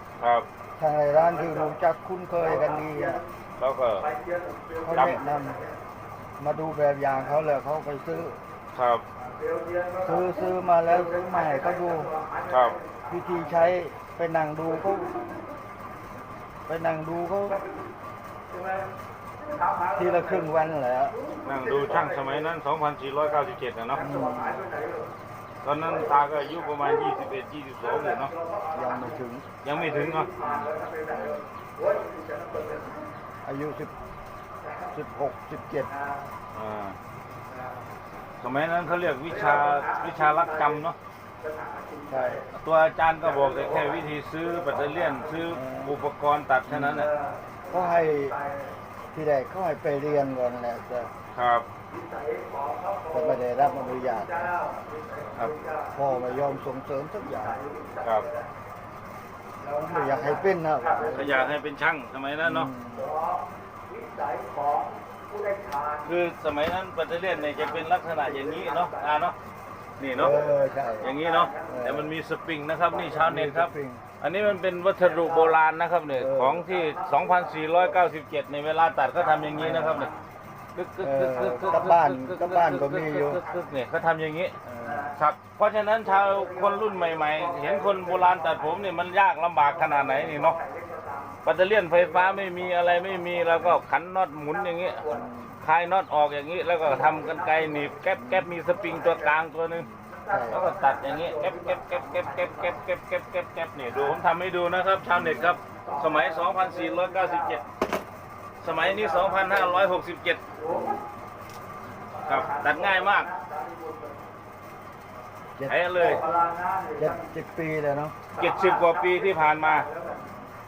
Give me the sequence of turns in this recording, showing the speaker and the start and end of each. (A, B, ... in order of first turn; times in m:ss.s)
0:00.2-0:00.5 A
0:00.8-0:03.2 B
0:01.1-0:01.8 C
0:02.4-0:03.3 C
0:03.6-0:04.1 A
0:04.0-0:05.8 C
0:04.8-0:05.6 B
0:04.9-0:05.2 A
0:06.4-0:08.4 B
0:08.7-0:09.0 A
0:09.2-0:13.8 C
0:10.0-0:12.1 B
0:12.5-0:12.8 A
0:13.1-0:15.1 B
0:14.7-0:15.5 C
0:16.7-0:17.6 B
0:17.5-0:17.8 C
0:18.5-0:22.5 C
0:20.0-0:21.2 B
0:21.4-0:24.2 A
0:23.2-0:25.1 C
0:24.0-0:24.6 B
0:25.6-0:28.3 A
0:25.8-0:33.2 C
0:28.7-0:29.5 B
0:29.6-0:30.5 A
0:31.1-0:31.4 B
0:33.4-0:33.9 B
0:34.6-0:34.9 C
0:34.9-0:35.9 B
0:35.9-0:36.3 C
0:36.5-0:37.0 A
0:37.5-0:37.8 C
0:38.4-0:41.0 A
0:39.3-0:42.5 C
0:42.1-0:42.4 B
0:42.6-0:47.1 A
0:43.2-0:45.6 C
0:45.5-0:46.0 B
0:46.7-0:47.0 B
0:46.9-0:48.8 C
0:47.7-0:48.4 B
0:49.1-0:51.1 B
0:51.3-0:51.7 A
0:51.9-0:58.5 C
0:53.1-0:54.5 B
0:55.4-0:55.6 A
0:55.9-0:57.6 B
0:59.6-1:01.6 C
0:59.7-1:01.3 B
1:01.1-1:02.7 A
1:02.4-1:03.1 B
1:02.9-1:06.2 C
1:06.1-1:09.4 A
1:07.2-1:09.3 C
1:10.0-1:10.4 A
1:10.1-1:11.1 B
1:10.1-1:12.0 C
1:11.0-1:20.1 A
1:11.6-1:12.1 B
1:12.8-1:13.4 C
1:13.2-1:14.1 B
1:15.0-1:15.6 C
1:16.1-1:16.6 B
1:16.6-1:18.0 C
1:19.1-1:20.2 C
1:19.6-1:20.1 B
1:20.7-1:24.6 A
1:21.0-1:23.4 B
1:23.1-1:23.7 C
1:24.6-1:25.0 B
1:24.8-1:25.2 C
1:25.1-1:30.6 A
1:26.0-1:29.0 C
1:29.6-1:33.8 C
1:31.4-1:35.0 A
1:34.5-1:35.3 C
1:35.1-1:35.6 B
1:35.6-1:39.9 A
1:36.8-1:39.5 C
1:38.1-1:38.5 B
1:39.8-1:40.7 B
1:40.1-1:42.8 C
1:40.5-1:47.6 A
1:43.9-1:44.2 C
1:45.1-1:45.6 B
1:45.6-1:47.6 C
1:48.6-1:50.4 A
1:48.6-1:50.0 C
1:50.5-1:51.0 C
1:50.7-1:51.0 B
1:52.1-1:54.3 C
1:52.3-1:53.3 A
1:55.6-1:56.2 B
1:55.7-1:56.2 A
1:56.0-1:57.3 C
1:57.0-1:58.2 B
1:58.3-2:00.4 C
1:58.4-1:59.9 A